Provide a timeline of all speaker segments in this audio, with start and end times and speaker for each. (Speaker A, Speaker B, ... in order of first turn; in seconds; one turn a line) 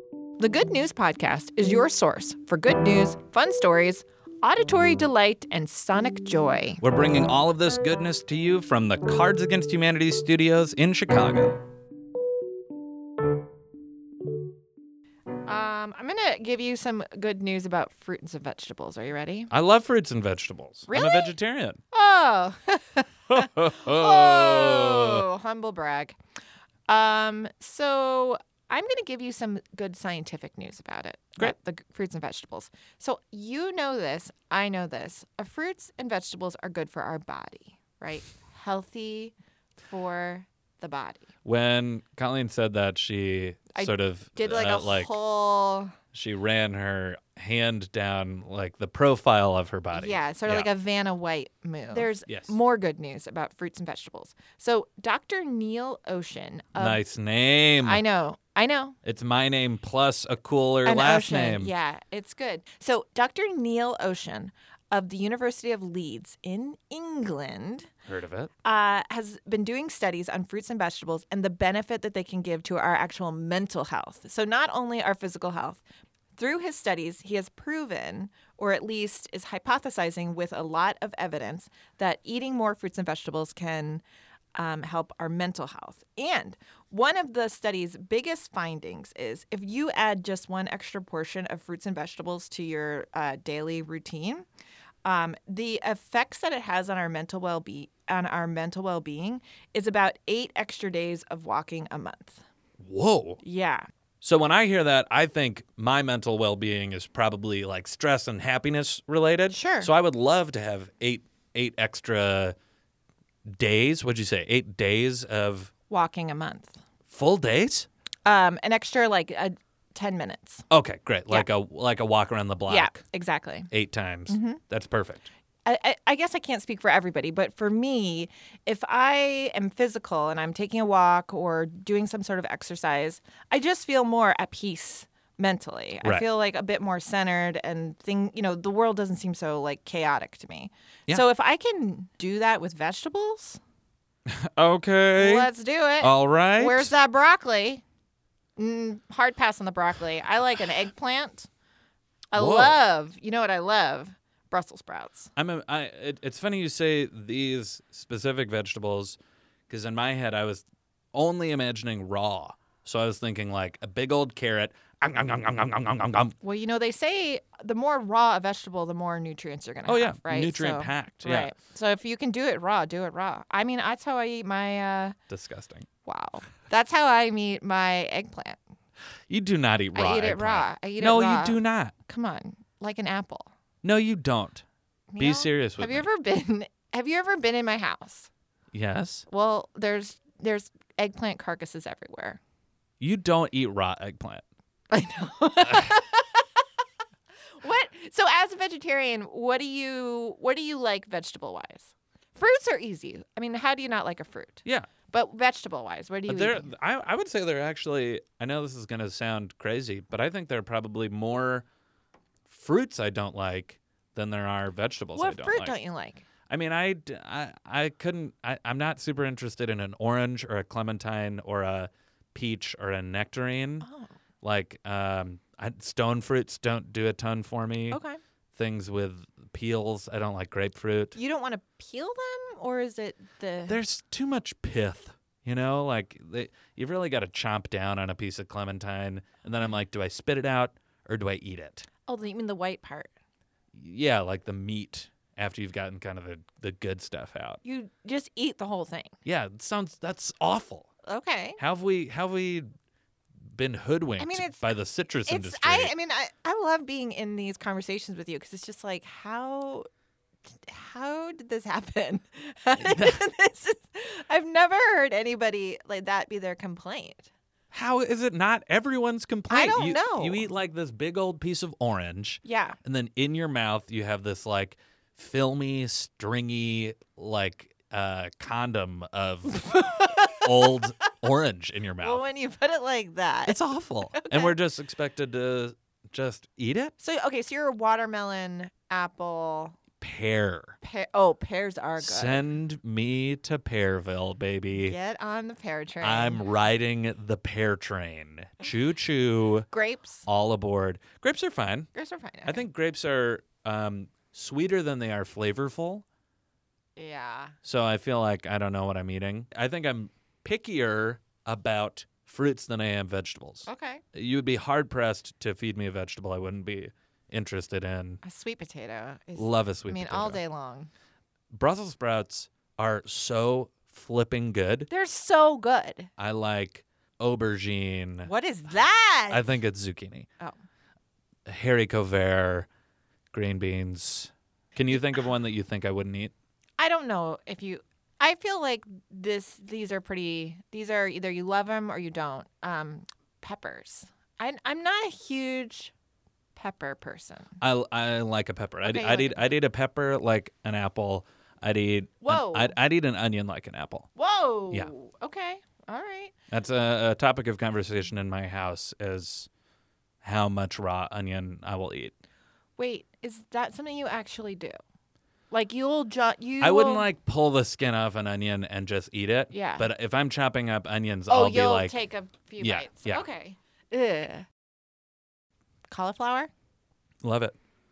Speaker A: 0.4-6.8
Speaker B: 6.8-11.6
Speaker A: 15.5-19.5
Speaker B: 19.5-21.8
Speaker A: 20.9-21.4
Speaker A: 21.9-26.2
Speaker B: 23.3-25.2
Speaker A: 26.9-41.3
Speaker B: 41.5-45.1
Speaker A: 43.8-45.9
Speaker B: 46.1-50.7
Speaker A: 49.9-57.0
Speaker B: 52.2-52.5
Speaker B: 56.8-58.0
Speaker A: 57.8-59.0
Speaker B: 59.0-61.7
Speaker A: 60.9-67.9
Speaker B: 68.1-68.5
Speaker A: 68.6-75.8
Speaker A: 76.4-84.0
Speaker A: 84.5-94.5
Speaker A: 95.0-102.4
Speaker B: 102.8-103.4
Speaker A: 103.4-103.9
Speaker B: 104.2-112.5
Speaker A: 109.5-109.9
Speaker B: 113.5-115.7
Speaker A: 115.9-116.8
Speaker B: 117.1-117.9
Speaker A: 118.3-120.7
Speaker B: 120.7-123.0
Speaker A: 122.7-123.7
Speaker B: 123.7-125.3
Speaker A: 124.3-124.6
Speaker A: 125.7-143.6
Speaker B: 144.3-145.5
Speaker A: 145.2-147.8
Speaker B: 146.0-146.9
Speaker A: 148.6-151.5
Speaker A: 152.3-155.3
Speaker B: 152.3-152.8
Speaker B: 155.4-159.2
Speaker B: 159.7-166.3
Speaker A: 166.4-175.2
Speaker B: 169.9-171.5
Speaker B: 175.3-175.9
Speaker A: 176.1-178.6
Speaker B: 179.3-181.9
Speaker A: 179.9-183.5
Speaker B: 183.8-184.7
Speaker A: 185.1-188.3
Speaker B: 185.2-186.1
Speaker B: 188.7-189.3
Speaker A: 189.3-192.4
Speaker B: 193.0-194.4
Speaker A: 194.9-196.5
Speaker A: 197.6-206.7
Speaker B: 206.3-211.7
Speaker B: 212.5-215.8
Speaker A: 215.2-216.2
Speaker B: 216.5-223.9
Speaker A: 223.8-224.1
Speaker B: 224.4-228.0
Speaker A: 227.9-228.2
Speaker B: 228.5-231.2
Speaker A: 231.2-233.8
Speaker B: 233.7-241.9
Speaker A: 242.1-243.1
Speaker B: 243.7-247.6
Speaker A: 247.6-249.2
Speaker B: 249.2-250.9
Speaker A: 251.1-251.6
Speaker B: 251.6-252.7
Speaker B: 253.5-255.9
Speaker A: 254.2-254.7
Speaker A: 255.3-259.9
Speaker A: 260.6-267.3
Speaker B: 262.8-263.2
Speaker B: 267.7-282.2
Speaker A: 269.5-270.5
Speaker A: 272.4-272.8
Speaker A: 279.6-281.0
Speaker A: 282.0-284.5
Speaker B: 283.5-286.9
Speaker A: 287.0-289.8
Speaker B: 290.0-290.8
Speaker A: 290.8-292.4
Speaker B: 292.0-295.0
Speaker A: 294.7-296.4
Speaker B: 296.0-299.7
Speaker A: 299.7-300.3
Speaker B: 300.3-301.9
Speaker A: 301.9-302.6
Speaker B: 302.4-306.1
Speaker A: 307.0-307.6
Speaker B: 307.6-318.2
Speaker A: 313.7-314.0
Speaker A: 318.2-320.9
Speaker B: 319.4-320.4
Speaker B: 321.5-324.9
Speaker A: 324.9-326.1
Speaker B: 326.2-328.3
Speaker A: 328.2-329.4
Speaker B: 329.3-330.3
Speaker B: 331.5-332.7
Speaker B: 333.3-336.3
Speaker A: 336.8-345.9
Speaker A: 346.6-347.6
Speaker B: 347.6-354.1
Speaker A: 348.8-349.5
Speaker A: 352.2-352.8
Speaker A: 354.2-356.3
Speaker B: 356.5-359.5
Speaker B: 360.2-362.1
Speaker A: 362.8-364.8
Speaker A: 365.5-367.1
Speaker B: 366.6-372.0
Speaker A: 369.5-369.9
Speaker A: 371.3-374.5
Speaker B: 372.6-373.2
Speaker A: 375.9-376.5
Speaker B: 377.2-377.6